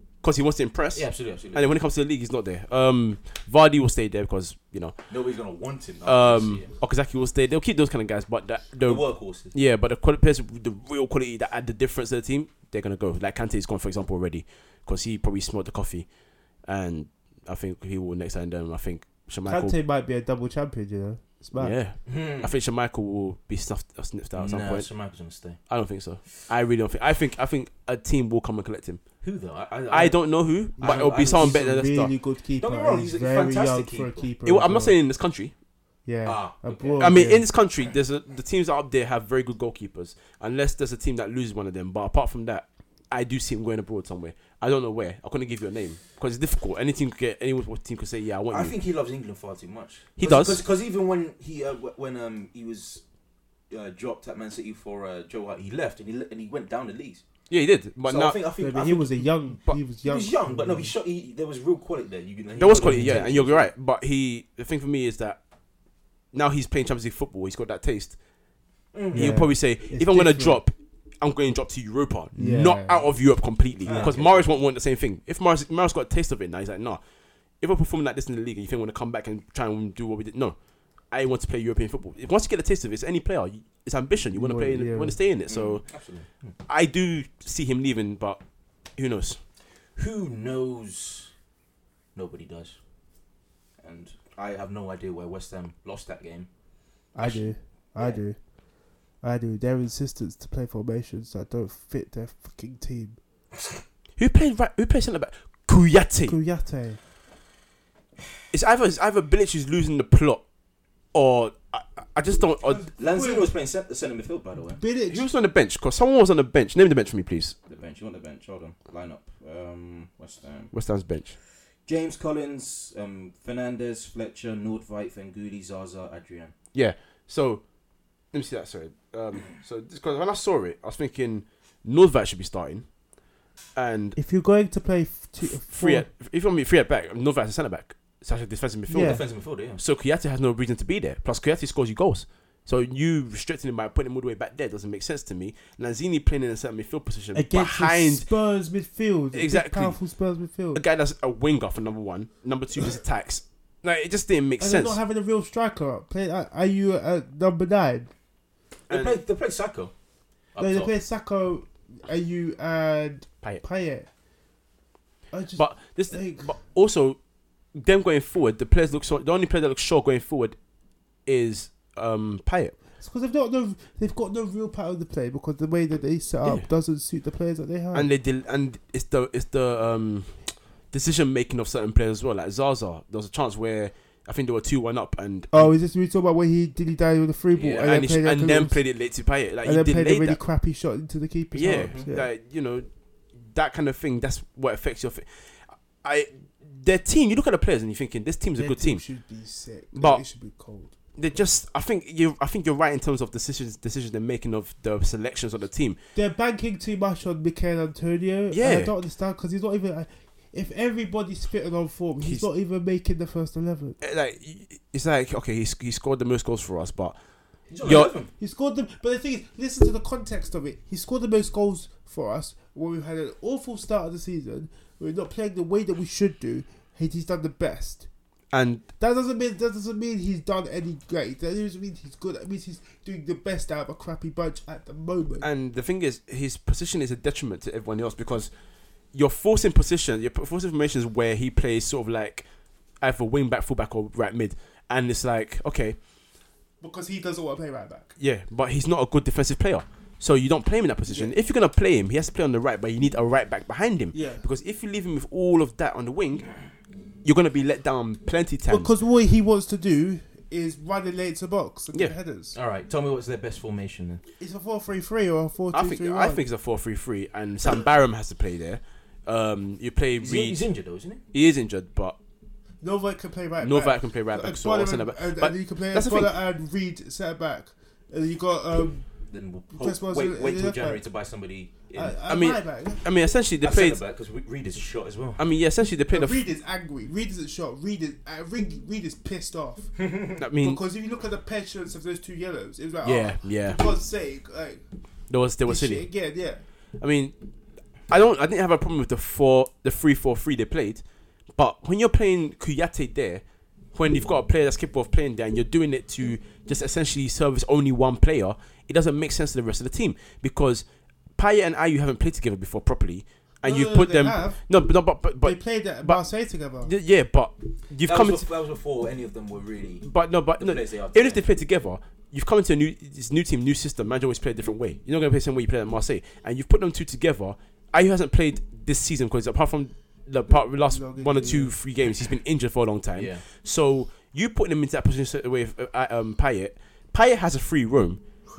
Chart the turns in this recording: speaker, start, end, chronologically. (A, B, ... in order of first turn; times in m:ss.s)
0:00.2-0:05.0 A
0:00.9-0:01.8 B
0:05.1-0:06.7 B
0:06.0-0:16.1 A
0:08.8-0:09.5 B
0:16.6-0:19.8 A
0:19.5-0:21.8 C
0:21.6-0:24.9 A
0:22.1-0:22.5 B
0:24.4-0:25.6 B
0:25.7-0:29.0 A
0:29.2-0:30.2 B
0:29.9-0:32.1 A
0:30.8-0:35.0 C
0:30.8-0:31.6 B
0:32.6-0:34.2 B
0:34.4-0:35.5 A
0:36.1-0:37.5 C
0:36.2-0:37.2 B
0:37.0-0:48.8 A
0:48.5-0:53.0 B
0:50.2-0:50.6 A
0:53.7-0:57.2 B
0:57.5-0:58.4 A
0:58.0-0:59.3 B
0:58.6-1:00.9 C
1:00.0-1:03.7 B
1:02.6-1:05.4 A
1:02.8-1:03.2 C
1:06.3-1:08.2 A
1:08.9-1:09.4 B
1:09.1-1:10.6 C
1:09.1-1:17.0 A
1:12.4-1:13.1 C
1:13.8-1:14.5 B
1:17.6-1:20.6 A
1:21.1-1:25.9 A
1:24.3-1:25.2 C
1:25.5-1:26.5 B
1:26.7-1:28.4 A
1:29.0-1:29.4 A
1:30.0-1:31.3 B
1:32.2-1:32.8 B
1:33.8-1:36.5 B
1:37.2-1:38.4 C
1:37.2-1:38.2 B
1:39.2-1:43.2 C
1:44.2-1:46.4 A
1:46.3-1:47.0 C
1:48.5-1:50.4 A
1:51.1-1:52.8 A
1:52.7-1:53.5 C
1:53.0-1:54.8 B
1:54.7-1:55.3 C
1:55.1-1:57.6 A
1:57.7-2:00.7 B
2:00.7-2:01.4 A
2:01.8-2:06.5 B
2:06.7-2:07.6 A
2:08.3-2:12.9 A
2:13.8-2:14.2 A
2:14.2-2:16.1 C
2:15.5-2:28.3 A
2:18.9-2:19.2 C
2:19.0-2:19.8 B
2:27.3-2:30.8 C
2:29.3-2:30.0 A
2:30.7-2:35.0 A
2:34.6-2:38.1 C
2:38.9-2:39.9 B
2:38.9-2:39.2 A
2:40.6-2:40.9 B
2:40.6-2:44.1 C
2:45.3-2:46.5 C
2:45.6-2:47.2 A
2:47.8-2:50.6 A
2:51.3-2:52.8 A
2:53.0-2:58.1 C
2:57.9-3:05.7 A
3:05.5-3:08.8 C
3:07.5-3:07.9 B
3:07.7-3:10.4 A
3:09.6-3:12.3 C
3:11.5-3:12.9 A
3:11.7-3:12.1 B
3:13.5-3:19.0 A
3:18.6-3:20.9 C
3:19.9-3:20.2 A
3:21.2-3:26.0 A
3:26.2-3:34.0 C
3:28.5-3:28.9 A
3:32.2-3:32.5 A
3:34.0-3:37.2 A
3:37.7-3:38.3 B
3:37.8-3:38.1 A
3:38.4-3:48.0 C
3:48.5-3:48.8 A
3:49.0-3:55.5 C
3:55.4-3:58.5 A
3:59.1-4:02.4 A
4:03.0-4:06.0 A
4:06.8-4:08.2 C
4:08.2-4:16.5 A
4:11.1-4:11.3 C
4:14.1-4:14.4 C
4:17.2-4:18.9 A
4:18.7-4:22.6 C
4:22.5-4:24.2 B
4:24.4-4:26.4 C
4:25.7-4:30.6 A
4:30.2-4:31.2 B
4:31.3-4:32.2 A
4:32.8-4:39.1 C
4:33.6-4:36.3 A
4:39.3-4:42.2 B
4:39.8-4:41.0 C
4:41.9-4:43.0 C
4:42.3-4:44.0 A
4:43.6-4:45.4 B
4:45.4-4:46.4 A
4:46.1-4:49.9 C
4:50.0-4:50.4 B
4:50.4-4:50.8 A
4:50.6-4:54.8 C
4:53.0-4:53.8 A
4:55.3-4:56.1 A
4:55.7-4:56.6 C
4:57.0-4:57.4 A
4:58.1-5:01.0 A
5:01.6-5:03.4 A
5:03.9-5:10.8 A
5:11.4-5:16.2 A
5:13.6-5:14.7 C
5:15.4-5:16.9 C
5:16.8-5:18.4 A
5:18.1-5:20.1 B
5:20.0-5:38.2 A
5:20.6-5:21.4 B
5:30.8-5:31.8 C
5:33.2-5:33.4 B